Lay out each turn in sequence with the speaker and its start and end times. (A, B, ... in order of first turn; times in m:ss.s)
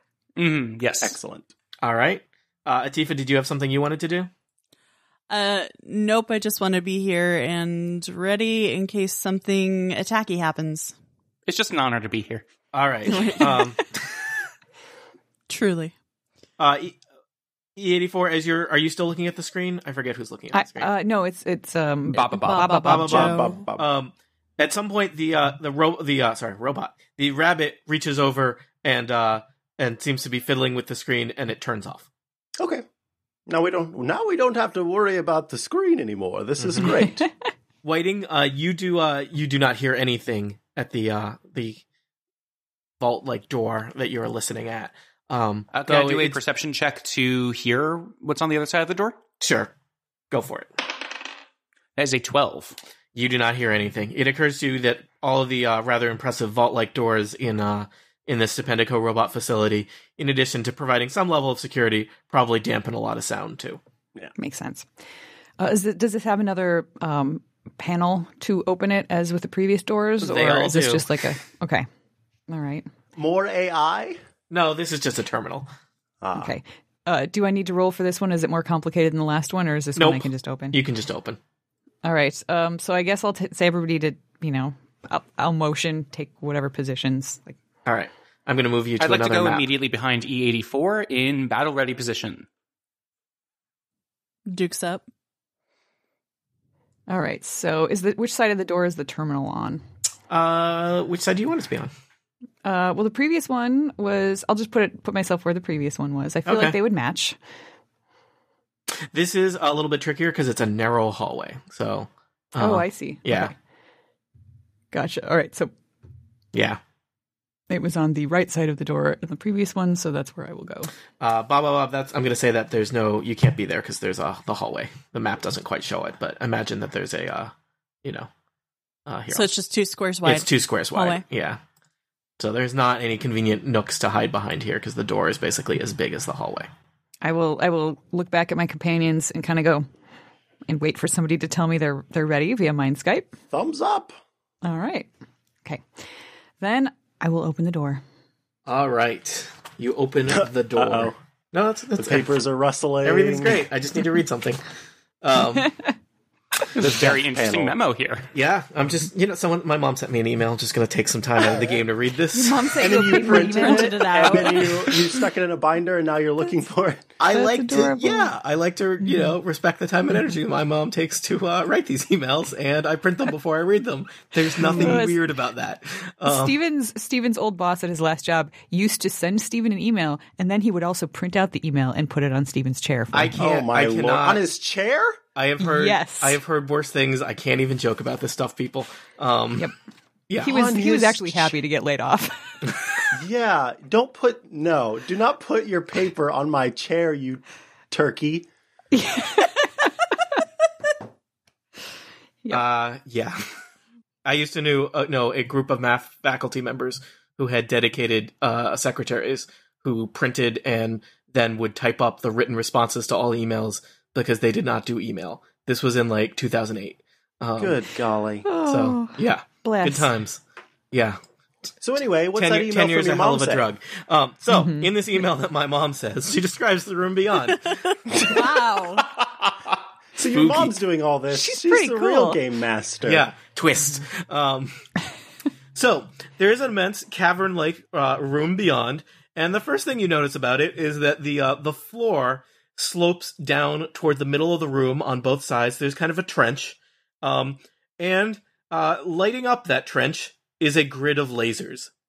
0:00.4-0:01.2 A
0:01.0-0:01.5 B
0:01.8-0:04.3 C
0:05.3-0:10.9 D
0:11.5-0:12.4 A
0:12.7-0:13.8 C
0:13.1-0:13.6 D
0:15.5-0:15.9 D
0:16.6-0:17.0 C
0:17.8-0:20.9 C
0:20.5-0:23.3 E
0:22.1-0:22.7 A
0:22.3-0:23.6 D
0:22.7-0:32.1 C
0:23.0-0:23.9 B
0:32.6-0:32.8 B
0:33.5-0:37.3 B
0:36.6-0:37.0 C
0:37.8-0:41.8 C
0:43.0-0:46.4 C
0:45.7-0:49.2 A
0:49.4-0:49.7 C
0:50.3-0:50.7 C
0:52.0-0:52.8 A
0:53.1-1:03.8 C
1:04.4-1:04.9 E
1:05.6-1:11.8 E
1:10.2-1:11.2 C
1:12.5-1:12.9 E
1:13.2-1:14.2 B
1:14.5-1:15.7 C
1:16.2-1:16.5 B
1:16.3-1:20.8 E
1:20.0-1:21.4 C
1:22.0-1:27.6 E
1:27.8-1:29.7 C
1:29.0-1:32.5 A
1:34.5-1:35.0 D
1:37.1-1:39.8 E
1:40.3-1:41.9 C
1:42.6-1:47.4 E
1:46.4-1:46.8 C
1:49.1-1:53.5 C
1:52.6-1:53.5 E
1:54.9-1:55.7 E
1:56.5-1:56.8 C
1:57.7-2:00.9 E
2:01.2-2:07.5 C
2:08.0-2:08.3 C
2:09.0-2:09.5 C
2:09.3-2:11.2 D
2:10.2-2:11.6 C
2:12.4-2:16.7 C
2:17.2-2:19.9 E
2:20.7-2:23.3 E
2:23.5-2:24.2 B
2:24.6-2:25.1 E
2:26.6-2:28.0 E
2:28.6-2:32.3 C
2:30.3-2:31.2 B
2:32.0-2:33.6 B
2:33.0-2:34.6 C
2:35.2-2:35.7 C
2:36.7-2:37.8 B
2:36.7-2:38.3 A
2:38.3-2:42.8 C
2:41.4-2:41.8 B
2:42.3-2:44.9 E
2:42.8-2:47.1 B
2:43.0-2:45.1 D
2:47.2-2:56.6 C
2:47.3-2:48.3 E
2:49.0-2:49.3 E
2:54.6-2:55.2 E
2:54.7-2:55.0 B
2:56.2-3:03.4 E
3:03.1-3:04.4 C
3:03.4-3:05.2 B
3:05.3-3:09.7 C
3:05.6-3:06.4 E
3:10.3-3:10.8 C
3:10.4-3:12.7 E
3:10.4-3:11.5 B
3:13.1-3:18.5 B
3:18.9-3:19.9 E
3:22.5-3:23.4 C
3:24.2-3:37.8 C
3:37.6-3:38.5 B
3:38.4-3:40.1 E
3:38.6-3:40.4 C
3:40.9-3:41.2 C
3:41.8-3:43.7 B
3:42.3-3:48.4 C
3:44.5-3:44.9 E
3:48.2-3:49.0 D
3:50.2-3:50.8 C
3:50.2-3:53.3 B
3:51.3-3:52.4 E
3:53.0-3:54.8 C
3:55.7-4:11.9 C